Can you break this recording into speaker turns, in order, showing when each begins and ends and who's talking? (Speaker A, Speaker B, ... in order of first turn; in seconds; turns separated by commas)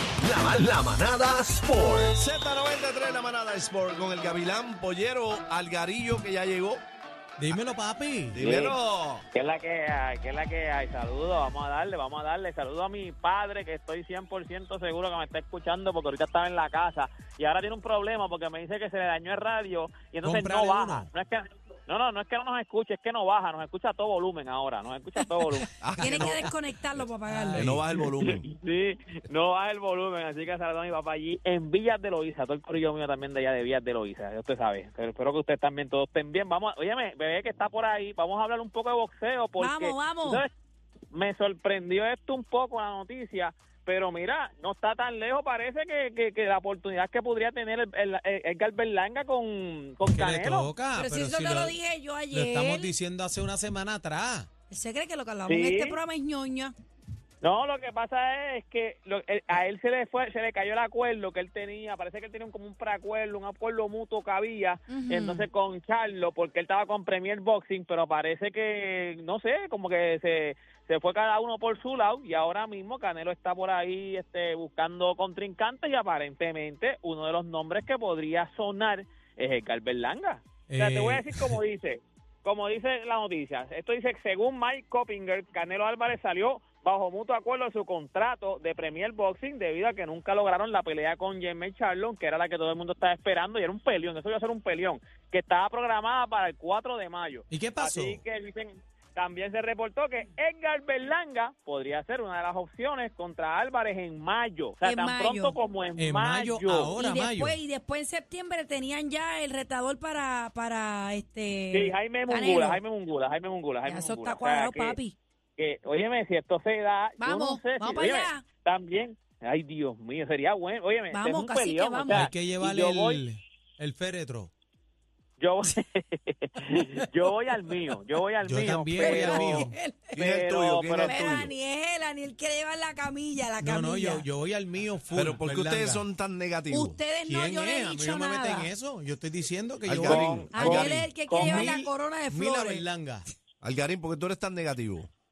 Speaker A: 0.2-2.1, Speaker B: 2.1-6.8, Speaker C: 7.4-8.4, Speaker B: 8.3-9.2, Speaker D: 8.4-8.8, Speaker D: 9.3-26.3, Speaker C: 20.2-21.1, Speaker B: 25.8-28.4, Speaker E: 26.0-27.7, Speaker C: 27.2-27.8, Speaker D: 28.0-40.5, Speaker E: 39.6-40.4, Speaker D: 41.1-50.7, Speaker C: 50.0-51.8, Speaker E: 50.9-52.9, Speaker C: 52.3-54.5, Speaker E: 54.7-56.7, Speaker D: 55.5-56.0, Speaker D: 57.4-106.9, Speaker E: 64.9-65.5, Speaker C: 80.7-81.6, Speaker C: 97.5-98.2, Speaker E: 104.8-105.5, Speaker C: 106.0-107.6, Speaker E: 107.0-112.8, Speaker D: 111.7-115.0, Speaker E: 113.8-115.2, Speaker D: 115.6-123.2, Speaker E: 117.2-118.5, Speaker E: 121.1-122.2, Speaker C: 122.1-124.5, Speaker D: 125.4-131.5, Speaker C: 128.4-129.8, Speaker E: 129.0-130.2, Speaker B: 130.1-131.5, Speaker E: 131.0-134.3, Speaker C: 133.6-136.0, Speaker B: 135.1-137.0, Speaker E: 136.7-138.7, Speaker C: 137.2-143.2, Speaker B: 139.8-141.1, Speaker D: 140.0-141.8, Speaker E: 140.5-142.8, Speaker B: 143.6-145.1